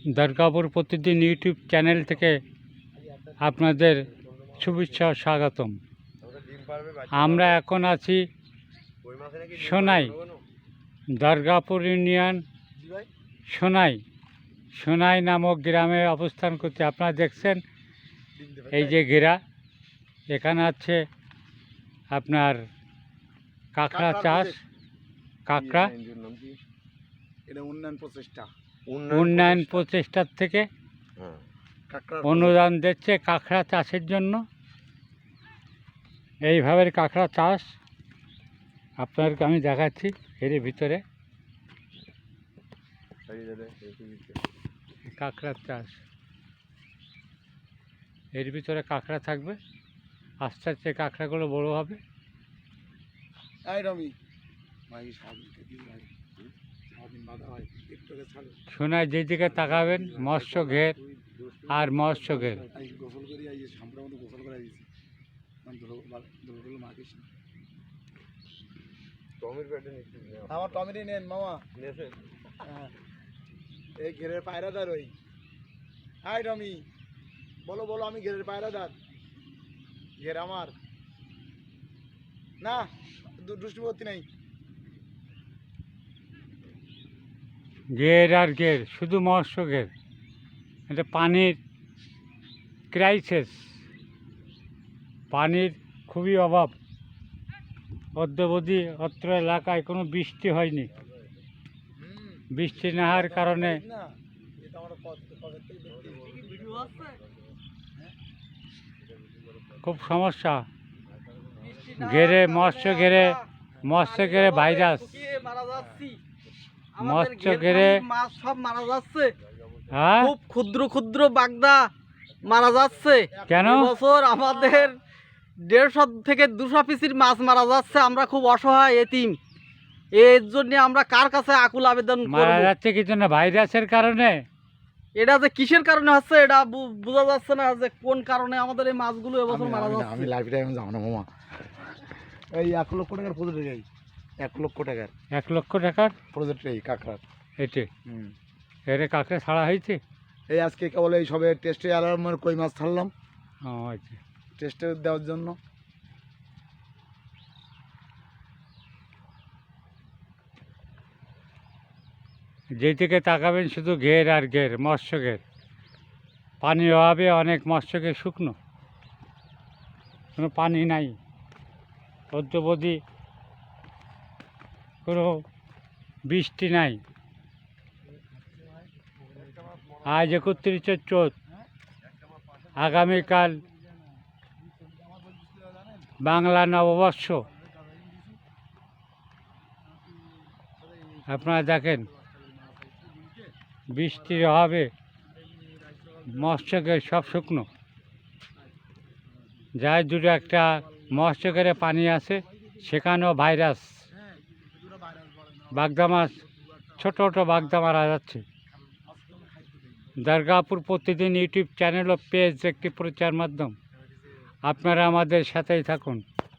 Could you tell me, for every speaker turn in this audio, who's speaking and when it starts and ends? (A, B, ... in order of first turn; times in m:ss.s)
0:00.1-0:02.4 A
0:03.0-0:03.6 B
0:03.4-0:05.8 A
0:06.2-0:07.1 C
0:07.1-0:08.2 A
0:09.0-0:10.4 C
0:09.6-0:10.2 A
0:11.1-0:12.4 A
0:12.7-0:13.1 B
0:13.5-0:14.0 A
0:14.8-0:17.6 A
0:18.4-0:19.1 B
0:18.7-0:19.4 A
0:20.3-0:21.0 A
0:22.1-0:22.6 A
0:23.8-0:24.6 A
0:23.9-0:24.6 B
0:25.5-0:25.9 A
0:26.1-0:26.5 C
0:27.5-0:28.5 B
0:29.1-0:30.7 A
0:31.9-0:32.6 B
0:32.2-0:34.4 A
0:36.4-0:37.7 A
0:39.0-0:41.0 A
0:43.3-0:44.4 C
0:45.1-0:46.0 A
0:48.3-0:49.6 A
0:50.4-0:52.0 A
0:53.7-0:54.1 B
0:54.9-0:58.6 B
0:58.7-1:01.0 A
0:59.4-1:00.3 B
1:01.1-1:01.6 C
1:01.7-1:02.6 A
1:02.1-1:04.9 B
1:05.6-1:07.3 B
1:09.4-1:10.6 C
1:10.5-1:11.6 B
1:11.8-1:12.2 C
1:12.6-1:12.9 B
1:14.0-1:15.1 B
1:16.2-1:16.9 B
1:17.7-1:19.0 B
1:20.2-1:20.8 B
1:22.6-1:24.3 B
1:28.0-1:29.9 A
1:30.9-1:31.6 A
1:32.9-1:33.6 A
1:35.3-1:36.8 A
1:38.2-1:40.9 A
1:42.0-1:46.3 B
1:42.5-1:43.8 A
1:46.1-1:47.3 C
1:49.8-1:50.7 A
1:51.4-1:53.5 C
1:52.0-1:53.4 A
1:53.9-1:55.2 A
1:54.0-1:56.2 C
1:55.7-1:56.1 B
1:57.0-1:59.3 C
1:57.1-1:58.0 A
1:59.9-2:00.3 A
2:00.2-2:01.9 C
2:02.4-2:04.9 C
2:03.3-2:04.9 B
2:03.5-2:03.9 A
2:05.6-2:09.4 C
2:10.1-2:12.7 C
2:12.3-2:14.4 A
2:15.2-2:20.3 C
2:19.5-2:21.3 B
2:22.5-2:23.9 B
2:24.4-2:25.1 B
2:25.3-2:26.2 A
2:26.3-2:27.2 B
2:27.6-2:27.9 A
2:28.1-2:28.3 B
2:28.9-2:30.0 A
2:30.5-2:33.1 B
2:33.6-2:34.2 A
2:34.6-2:35.6 B
2:42.8-2:45.4 A
2:46.6-2:48.6 A
2:50.4-2:51.2 A
2:52.3-2:53.0 A
2:55.1-2:55.4 A
2:56.3-2:57.0 A
2:58.1-2:59.9 B
3:00.1-3:01.3 A
3:02.7-3:06.2 B
3:02.8-3:03.6 A
3:06.2-3:07.5 A
3:07.1-3:08.4 B
3:09.8-3:17.5 B
3:11.3-3:12.1 A
3:13.9-3:14.9 A
3:16.3-3:17.7 A
3:18.6-3:19.7 B
3:19.8-3:23.9 A
3:20.3-3:22.9 B
3:24.1-3:28.0 B
3:25.7-3:26.4 A
3:27.0-3:28.4 A
3:28.7-3:30.1 B
3:30.2-3:33.8 A
3:34.0-3:34.2 B
3:34.6-3:36.2 A